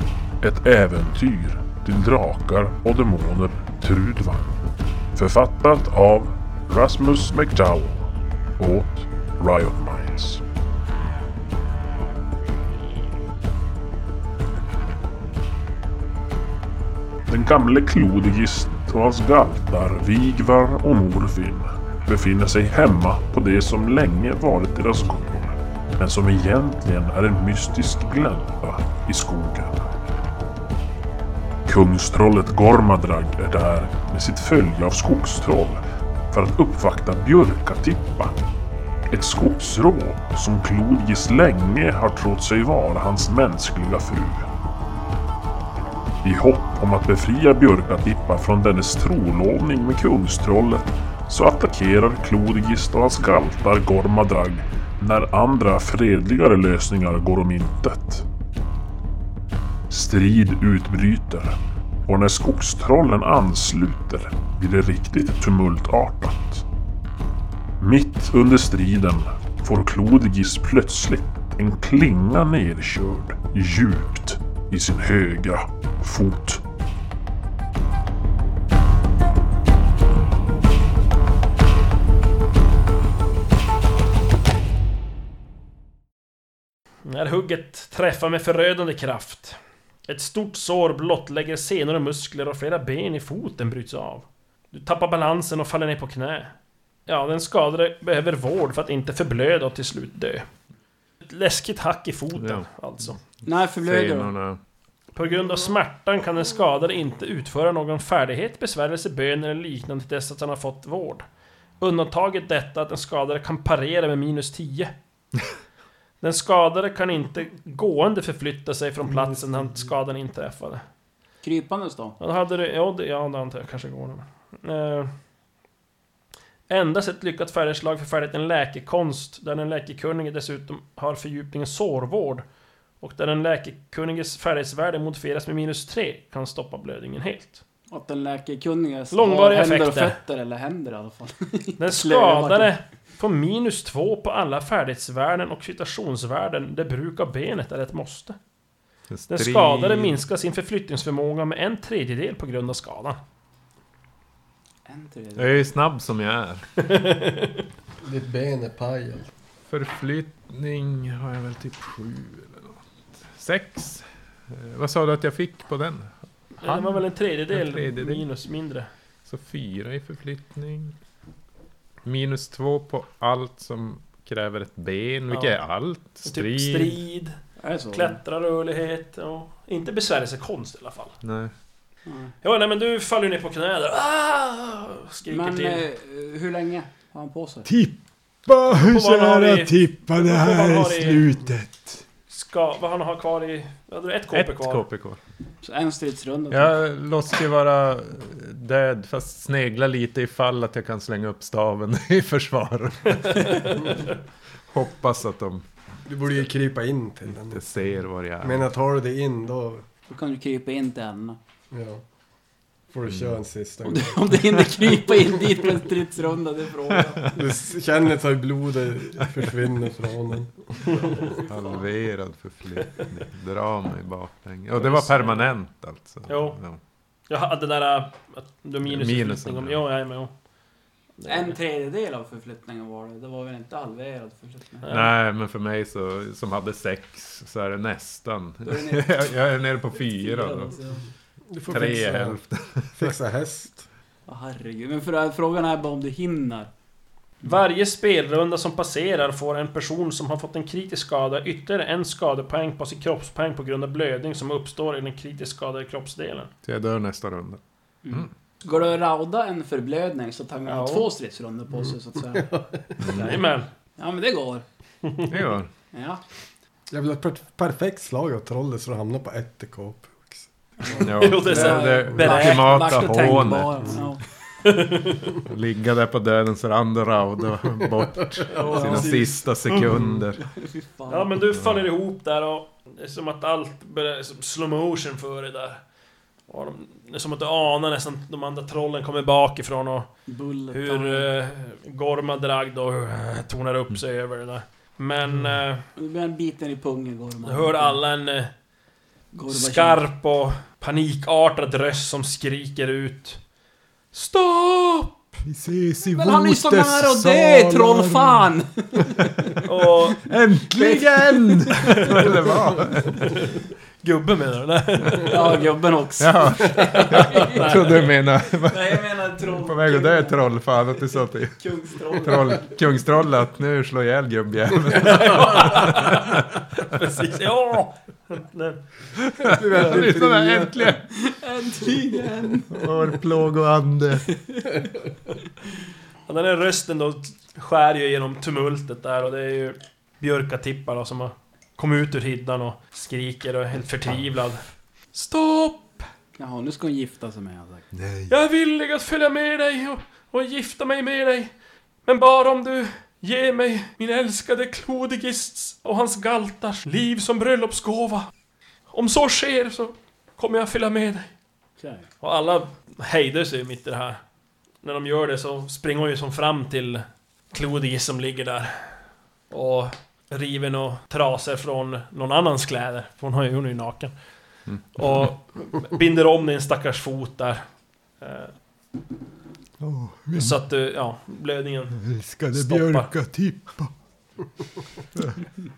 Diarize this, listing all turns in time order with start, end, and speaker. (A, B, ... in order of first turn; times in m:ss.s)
0:00.4-0:04.6 A
0:05.2-0:10.4 A
0:17.3-0:29.9 A
0:31.6-0:38.4 A
0:39.1-0:44.5 A
0:46.2-0:58.2 A
0:59.9-1:06.6 A
1:07.8-1:16.6 A
1:27.0-1:36.5 B
1:37.1-1:40.5 B
1:41.2-1:43.2 B
1:42.4-1:44.6 C
1:43.4-1:44.3 D
1:45.1-1:51.2 B
1:51.8-1:54.9 B
1:56.2-2:00.8 B
2:01.4-2:02.2 D
2:02.2-2:05.1 B
2:06.7-2:12.5 B
2:13.0-2:17.6 B
2:17.9-2:22.7 D
2:19.1-2:20.2 B
2:21.8-2:28.4 B
2:29.1-2:30.2 C
2:29.3-2:33.2 B
2:34.8-2:35.6 D
2:35.4-2:36.7 C
2:36.8-2:37.6 B
2:38.0-2:39.3 E
2:39.7-2:48.3 C
2:46.6-2:48.9 B
2:49.2-2:51.0 C
2:52.0-2:57.0 C
2:56.2-3:01.2 B
2:57.6-2:58.2 D
3:01.2-3:01.5 C
3:02.0-3:02.3 D
3:02.4-3:05.8 B
3:05.3-3:07.7 D
3:07.6-3:12.0 C
3:08.7-3:11.2 B
3:12.3-3:14.8 B
3:14.3-3:15.2 C
3:15.6-3:16.7 D
3:16.5-3:23.9 C
3:23.2-3:24.0 B
3:24.7-3:25.6 C
3:26.0-3:27.6 E
3:27.5-3:28.7 C
3:28.4-3:29.8 E
3:30.1-3:31.4 D
3:31.7-3:32.0 E
3:32.9-3:35.5 E
3:33.1-3:33.4 C
3:33.8-3:37.4 D
3:37.3-3:41.2 E
3:41.4-3:46.8 C
3:44.8-3:45.5 B
3:46.3-3:46.6 B
3:47.3-3:50.4 B
3:48.8-3:49.8 C
3:51.2-3:51.6 B
3:51.2-3:54.9 D
3:54.8-3:55.1 B
3:54.9-4:00.8 C
3:58.6-3:59.2 D
4:00.1-4:01.0 D
4:01.5-4:02.4 E
4:01.7-4:03.2 C
4:02.9-4:03.9 E
4:04.3-4:06.7 D
4:07.4-4:16.5 B
4:16.6-4:18.3 C
4:18.0-4:22.6 D
4:20.7-4:21.1 B
4:21.8-4:23.0 E
4:23.0-4:23.4 C
4:23.1-4:23.7 B
4:24.0-4:24.6 D
4:25.0-4:25.3 B
4:25.3-4:25.7 C
4:25.9-4:26.2 D
4:26.9-4:31.2 E
4:30.9-4:34.2 D
4:31.0-4:33.0 B
4:31.0-4:34.0 C
4:32.9-4:34.1 E
4:34.6-4:35.3 B
4:35.4-4:40.4 C
4:38.5-4:39.4 D
4:38.6-4:39.1 E
4:38.7-4:39.9 B
4:40.4-4:41.3 D
4:41.1-4:45.9 B
4:41.5-4:41.9 C
4:46.4-4:55.9 B
4:50.3-4:51.3 D
4:55.3-4:58.0 D
4:57.4-4:58.5 B
4:59.3-5:00.0 D
4:59.5-5:03.4 B
5:04.1-5:05.4 B
5:05.4-5:09.0 C
5:06.0-5:09.6 D
5:09.6-5:10.2 B
5:10.2-5:13.3 C
5:10.7-5:12.8 D
5:11.9-5:12.2 B
5:14.0-5:15.6 B
5:15.3-5:20.5 D
5:16.2-5:26.8 C
5:16.8-5:18.1 B
5:21.6-5:22.8 D
5:25.0-5:29.1 B
5:29.4-5:30.9 E
5:29.5-5:31.1 C
5:31.1-5:32.9 D
5:32.7-5:34.3 C
5:34.5-5:34.8 D
5:36.3-5:46.1 B
5:46.4-5:47.9 D
5:47.9-5:48.3 C
5:48.3-5:58.3 B
5:58.9-6:01.3 B
6:01.8-6:02.1 D
6:02.2-6:04.2 B
6:04.8-6:14.1 B
6:14.7-6:15.3 C
6:14.9-6:17.6 B
6:18.2-6:18.5 B
6:19.8-6:20.6 C
6:20.3-6:23.1 B
6:21.9-6:24.0 C
6:25.1-6:25.4 C